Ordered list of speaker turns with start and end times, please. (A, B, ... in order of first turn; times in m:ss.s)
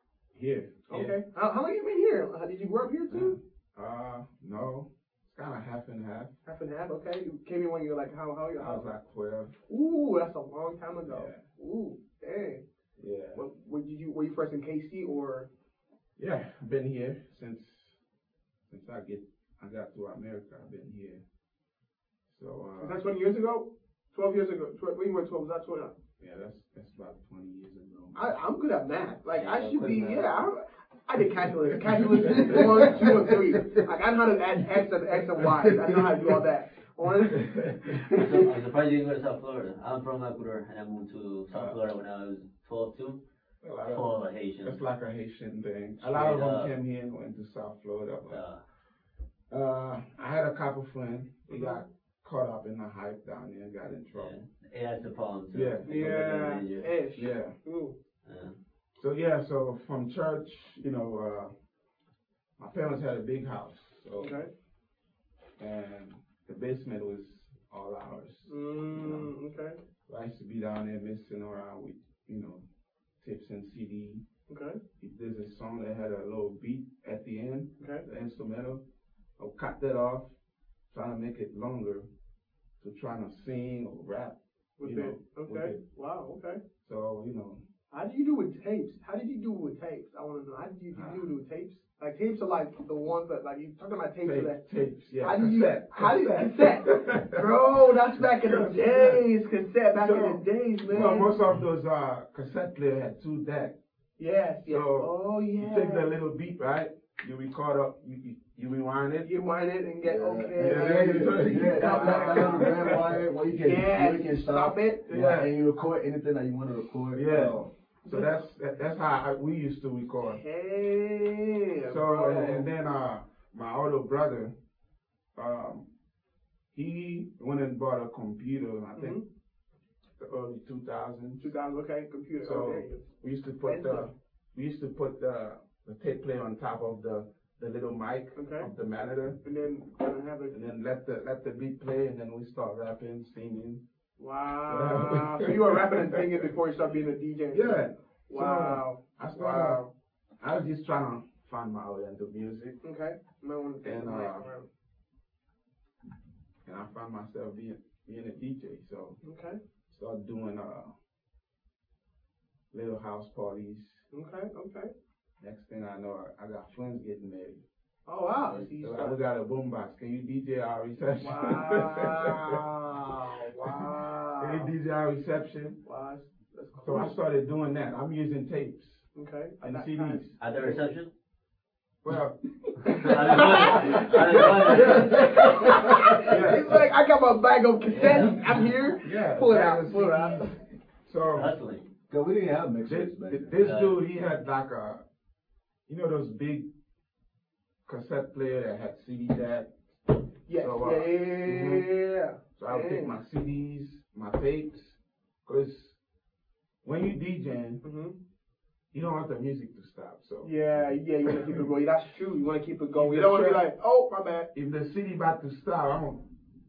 0:00.3-0:01.2 A
0:00.9-0:03.4 B
0:03.1-0:06.3 A
0:06.4-0:08.9 B
0:08.6-0:09.5 A
0:09.7-0:12.6 B
0:11.1-0:11.4 A
0:13.0-0:13.4 A
0:13.3-0:15.5 B
0:16.2-0:18.0 A
0:18.7-0:21.2 A
0:22.3-0:23.0 A
0:22.8-0:25.9 B
0:26.2-0:28.3 A
0:28.1-0:38.2 B
0:29.3-0:30.3 C
0:31.9-0:33.1 A
0:32.3-0:33.8 D
0:37.3-0:38.2 A
0:38.1-0:43.2 C
0:41.5-0:41.8 A
0:43.6-0:48.4 A
0:43.8-0:44.8 C
0:46.0-0:46.7 C
0:48.3-0:48.6 C
0:49.5-0:54.4 A
0:51.5-0:51.8 B
0:54.1-0:56.9 C
0:55.5-0:56.1 A
0:55.8-0:57.9 B
0:57.2-0:57.5 A
0:58.2-0:58.6 C
0:59.0-1:01.5 A
1:02.6-1:04.4 A
1:04.2-1:04.5 B
1:05.6-1:09.3 A
1:08.5-1:09.8 B
1:10.1-1:12.6 A
1:13.2-1:14.2 A
1:14.5-1:14.8 B
1:15.0-1:18.8 A
1:17.8-1:18.0 B
1:19.4-1:20.3 A
1:20.9-1:22.1 A
1:22.8-1:25.8 A
1:24.8-1:26.6 B
1:26.8-1:27.6 A
1:27.9-1:34.6 B
1:30.9-1:31.2 A
1:34.2-1:37.4 A
1:35.2-1:41.3 B
1:38.2-1:39.2 A
1:39.9-1:43.8 A
1:44.2-1:46.1 B
1:44.6-1:49.3 A
1:49.2-1:55.4 B
1:50.0-1:57.7 D
1:50.6-1:53.2 A
1:55.1-1:55.5 A
1:57.1-2:00.4 A
2:00.2-2:02.7 B
2:01.9-2:04.5 A
2:05.3-2:05.9 A
2:06.7-2:09.2 A
2:08.9-2:09.2 B
2:10.2-2:11.5 A
2:11.4-2:13.1 B
2:12.4-2:19.4 A
2:13.6-2:14.1 B
2:18.3-2:18.7 B
2:19.4-2:20.6 B
2:20.5-2:23.8 A
2:24.2-2:29.9 B
2:24.6-2:26.5 A
2:27.5-2:29.8 A
2:30.4-2:32.8 A
2:32.8-2:34.7 B
2:33.8-2:34.5 A
2:36.6-2:39.2 A
2:39.2-2:39.6 B
2:39.9-2:40.9 A
2:42.7-2:44.0 A
2:44.1-2:44.9 B
2:45.4-2:47.6 A
2:48.0-2:49.2 B
2:48.4-2:52.6 A
2:51.2-2:54.7 B
2:54.4-2:55.8 A
2:55.8-2:57.1 B
2:56.8-3:00.4 A
2:59.1-3:00.8 B
3:00.4-3:01.1 C
3:02.0-3:03.1 A
3:02.8-3:10.6 B
3:02.9-3:05.8 C
3:04.1-3:04.9 A
3:06.2-3:06.8 A
3:08.0-3:08.4 C
3:09.0-3:11.5 A
3:11.3-3:11.9 C
3:12.1-3:13.6 D
3:12.9-3:15.0 A
3:13.6-3:14.0 C
3:15.9-3:16.7 A
3:17.8-3:21.9 A
3:20.5-3:23.1 B
3:22.6-3:26.0 A
3:26.8-3:27.8 A
3:27.8-3:28.2 B
3:28.9-3:30.5 A
3:30.4-3:34.5 B
3:31.3-3:31.6 A
3:32.9-3:33.6 A
3:34.5-3:36.3 A